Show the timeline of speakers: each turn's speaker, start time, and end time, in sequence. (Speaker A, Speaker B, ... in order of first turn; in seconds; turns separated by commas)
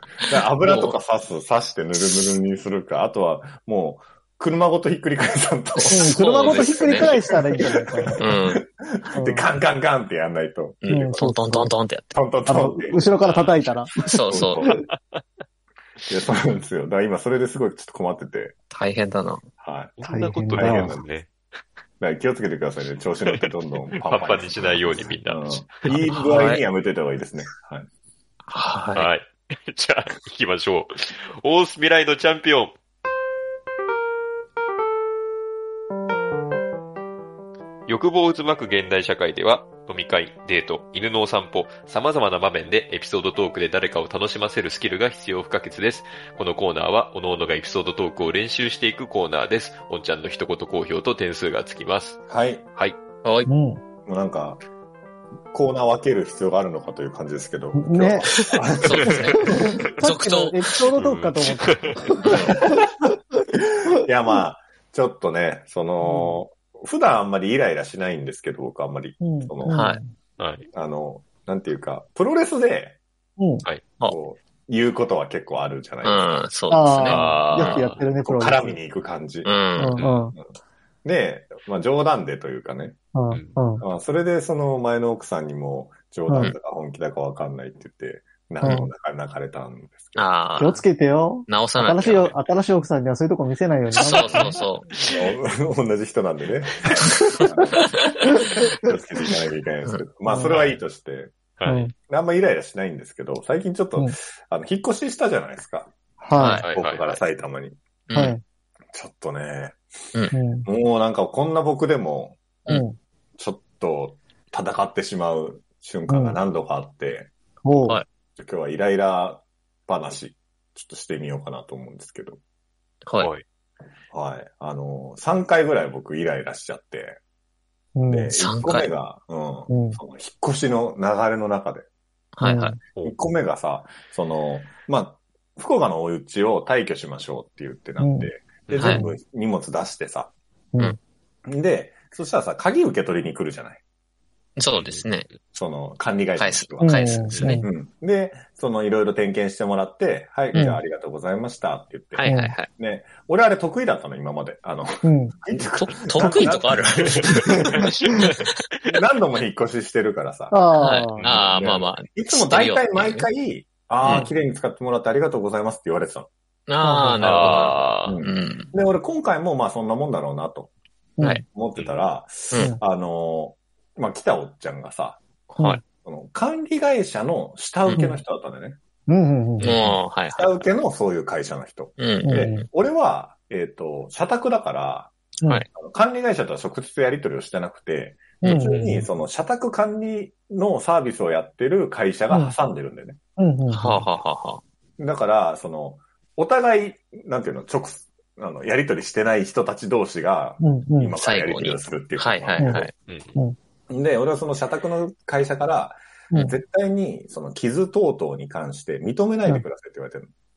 Speaker A: 0.3-11.3, Speaker B: 0.6-1.0, Speaker B: 5.8-7.2, Speaker C: 5.9-8.2, Speaker B: 8.2-8.6, Speaker C: 9.2-9.5, Speaker B: 10.8-12.1, Speaker C: 10.9-11.7, Speaker A: 12.1-13.1, Speaker C: 12.5-14.8, Speaker D: 13.2-13.7, Speaker B: 14.0-14.7, Speaker A: 14.3-14.8, Speaker D: 14.9-15.2, Speaker A: 16.1-18.5, Speaker B: 18.7-19.4, Speaker A: 19.6-20.0, Speaker D: 20.0-21.3, Speaker C: 20.1-21.0, Speaker A: 20.6-21.0, Speaker A: 22.0-27.9, Speaker D: 23.3-26.0, Speaker B: 26.1-26.6, Speaker B: 28.5-29.1, Speaker D: 29.0-32.8, Speaker D: 37.9-52.2, Speaker A: 52.3-52.7, Speaker B: 53.2-53.5, Speaker C: 53.5-53.8, Speaker A: 54.0-54.6, Speaker A: 55.5-59.8, Speaker C: 57.7-58.3, Speaker B: 58.8-60.6, Speaker C: 59.4-63.0, Speaker D: 61.0-62.0, Speaker A: 62.2-62.9, Speaker A: 63.9-69.8, Speaker C: 66.0-66.3, Speaker C: 69.2-70.1, Speaker B: 69.7-70.0, Speaker D: 70.4-70.7, Speaker A: 70.7-73.0, Speaker C: 73.4-73.7, Speaker A: 74.1-76.3, Speaker B: 76.0-77.8, Speaker C: 76.7-78.8, Speaker D: 77.1-78.1, Speaker A: 78.2-79.6, Speaker B: 79.5-80.0, Speaker C: 79.8-80.4, Speaker D: 80.0-80.2, Speaker A: 81.0-83.0, Speaker C: 83.2-83.8, Speaker D: 83.3-83.6, Speaker A: 83.8-90.2, Speaker C: 86.3-86.5, Speaker C: 88.6-88.9, Speaker B: 90.2-90.8, Speaker C: 90.6-94.6, Speaker B: 91.5-92.3, Speaker B: 94.0-94.9, Speaker A: 95.0-101.3, Speaker B: 97.8-98.1, Speaker C: 100.3-100.6, Speaker D: 101.6-101.9, Speaker C: 101.7-101.9, Speaker A: 102.0-105.9, Speaker C: 106.2-106.6, Speaker B: 106.3-106.7, Speaker D: 106.6-107.2, Speaker A: 106.7-107.8, Speaker B: 108.1-108.3, Speaker C: 108.1-108.4, Speaker A: 108.9-109.8, Speaker C: 110.3-110.7, Speaker A: 110.6-112.4, Speaker C: 112.7-113.0, Speaker A: 113.4-117.3, Speaker C: 116.1-116.4, Speaker C: 117.7-118.0, Speaker A: 118.4-122.4, Speaker D: 123.2-123.4, Speaker A: 124.1-127.2, Speaker C: 128.0-128.3, Speaker A: 128.1-131.9, Speaker B: 128.3-128.9, Speaker C: 129.7-130.0, Speaker B: 132.4-132.8, Speaker C: 132.4-132.8, Speaker A: 133.0-140.3, Speaker C: 138.0-138.3, Speaker D: 138.7-139.0, Speaker B: 138.8-139.0, Speaker C: 138.8-139.2, Speaker A: 141.5-143.8, Speaker B: 144.6-145.3, Speaker D: 144.7-145.1, Speaker A: 145.5-157.9, Speaker B: 146.4-147.6, Speaker C: 146.8-147.7, Speaker C: 150.5-150.8, Speaker B: 152.1-152.7, Speaker C: 152.3-152.6, Speaker C: 155.0-155.4, Speaker B: 155.8-157.8, Speaker A: 158.9-160.6, Speaker C: 160.5-161.2, Speaker B: 160.8-163.3, Speaker D: 161.2-161.4, Speaker A: 161.2-166.3, Speaker B: 164.0-164.3, Speaker B: 166.7-168.7, Speaker C: 166.8-167.5, Speaker D: 167.2-168.2, Speaker A: 168.1-170.7, Speaker C: 171.2-171.4, Speaker A: 171.4-175.2, Speaker D: 171.8-172.0, Speaker B: 175.5-175.8, Speaker C: 175.6-175.8, Speaker A: 176.0-178.8, Speaker C: 177.9-178.2, Speaker C: 179.1-179.7, Speaker D: 179.6-180.0, Speaker B: 179.6-180.6, Speaker A: 180.3-185.1, Speaker B: 182.0-182.7, Speaker C: 182.2-182.6, Speaker A: 185.8-193.2, Speaker C: 188.4-189.1, Speaker B: 188.4-188.8, Speaker C: 192.3-192.6, Speaker C: 193.4-194.0, Speaker B: 193.7-194.6, Speaker A: 195.0-202.9, Speaker C: 200.6-201.2, Speaker B: 201.2-202.9, Speaker C: 202.6-203.6, Speaker D: 203.1-203.4, Speaker A: 203.9-210.3